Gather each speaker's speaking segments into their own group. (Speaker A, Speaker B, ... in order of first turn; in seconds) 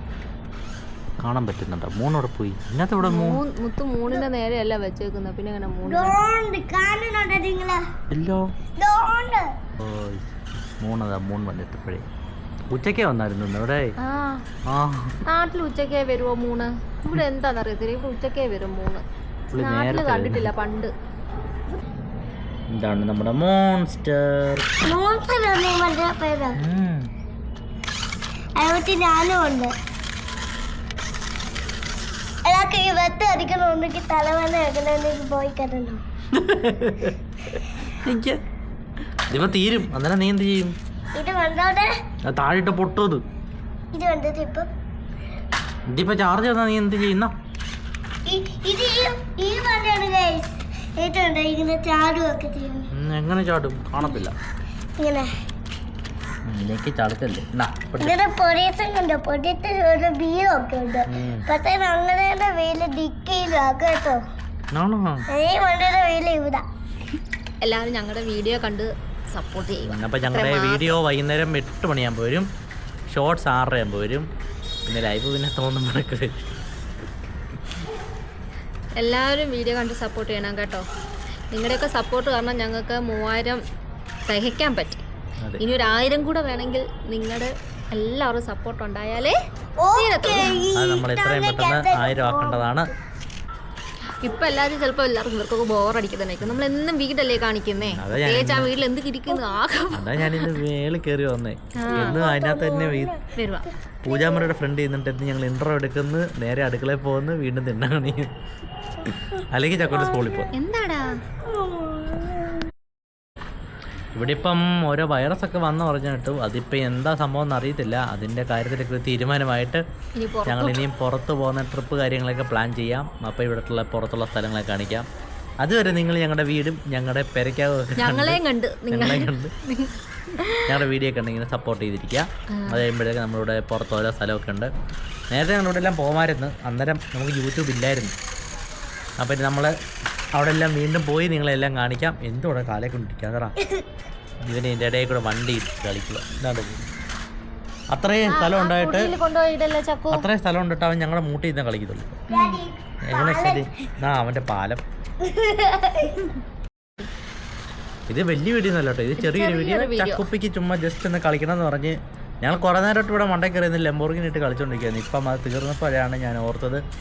Speaker A: 1.2-3.4, 8.1-8.5, 9.8-12.0, 12.7-13.9, 14.7-15.2, 19.5-20.5, 22.7-24.7, 26.6-27.1, 36.3-37.1, 37.9-38.4, 39.3-40.7, 42.2-43.2, 45.9-47.3, 52.9-54.3, 56.5-58.2, 61.1-61.5, 64.7-65.2, 69.8-72.5, 73.1-74.3, 74.8-76.5, 90.7-92.9, 97.8-98.7, 99.9-103.1, 104.0-108.3, 109.0-110.5, 114.2-119.8, 120.5-125.1, 125.6-129.5, 130.7-134.7, 135.3-138.1, 139.2-139.7, 140.3-143.5, 144.4-146.8, 147.9-149.1, 150.1-152.2, 153.1-154.8, 158.1-166.8
Speaker B: 3.0-6.2, 14.0-14.4, 15.2-20.9, 67.6-71.0, 79.0-80.8, 81.5-83.6, 84.2-85.0, 85.6-89.3, 89.9-90.6, 94.2-100.6, 101.8-102.2, 103.3-103.7, 110.5-111.2, 120.2-120.9, 128.0-130.8, 132.5-132.8, 148.2-150.2, 152.3-152.6, 159.2-160.2
Speaker C: 5.8-7.8, 8.8-9.5, 24.8-26.6, 28.6-29.7, 32.5-36.0, 41.1-41.9, 43.9-44.7, 48.2-52.9, 55.0-55.3, 58.0-64.2, 65.3-66.6, 89.8-92.7, 101.9-103.3, 104.1-104.4, 111.7-112.3, 152.3-153.7, 155.2-156.3